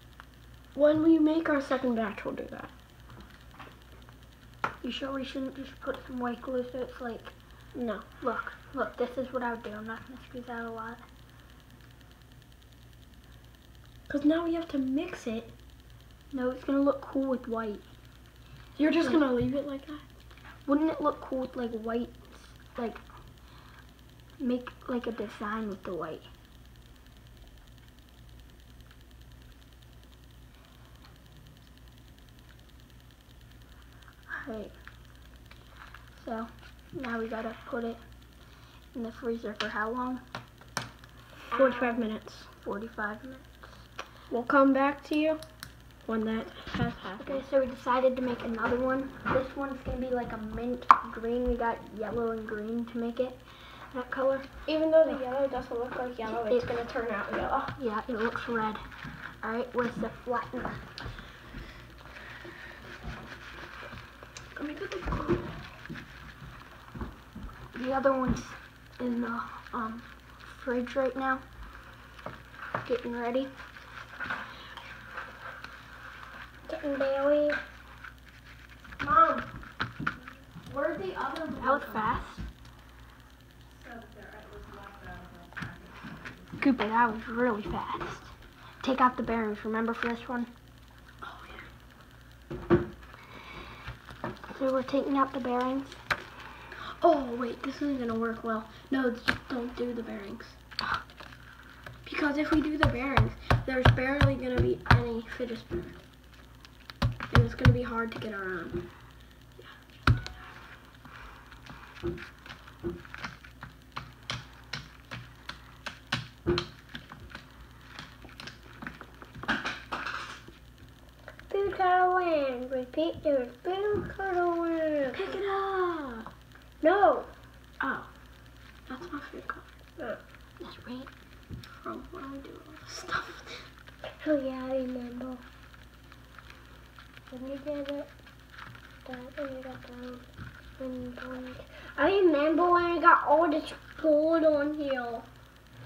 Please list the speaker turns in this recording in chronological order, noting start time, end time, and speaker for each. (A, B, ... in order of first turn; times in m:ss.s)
0:00.7-0:02.7 A
0:04.8-0:07.3 B
0:07.7-0:08.0 A
0:08.2-0:11.0 B
0:14.1-0:15.5 A
0:16.3-0:17.8 B
0:18.8-0:20.0 A
0:20.6-0:23.0 B
0:24.4-0:26.3 B
0:34.3-0:34.7 B
0:36.1-0:38.0 B
0:38.9-0:40.2 B
0:41.5-0:42.5 A
0:41.5-0:42.1 B
0:42.6-0:43.6 B
0:44.3-0:45.4 A
0:46.0-0:47.4 A
0:47.2-0:53.4 B
0:53.9-0:54.5 B
0:54.7-0:57.7 A
0:57.8-0:58.8 B
0:59.4-1:00.8 B
1:04.5-1:05.5 A
1:07.7-1:11.4 B
1:12.8-1:13.5 B
1:16.7-1:17.6 C
1:19.0-1:19.5 A
1:20.6-1:22.1 A
1:21.6-1:22.4 B
1:23.7-1:26.0 A
1:26.6-1:28.3 B
1:28.8-1:30.5 B
1:31.2-1:31.7 A
1:34.5-1:36.0 B
1:37.0-1:40.6 A
1:42.0-1:45.9 A
1:47.3-1:48.8 A
1:49.6-1:50.3 A
2:01.5-2:05.4 C
2:05.1-2:06.2 A
2:06.8-2:07.3 C
2:07.8-2:08.1 A
2:08.9-2:09.6 A
2:10.6-2:11.1 B
2:11.8-2:13.6 A
2:14.2-2:15.4 C
2:17.3-2:18.1 C
2:19.0-2:20.2 C
2:20.8-2:25.2 C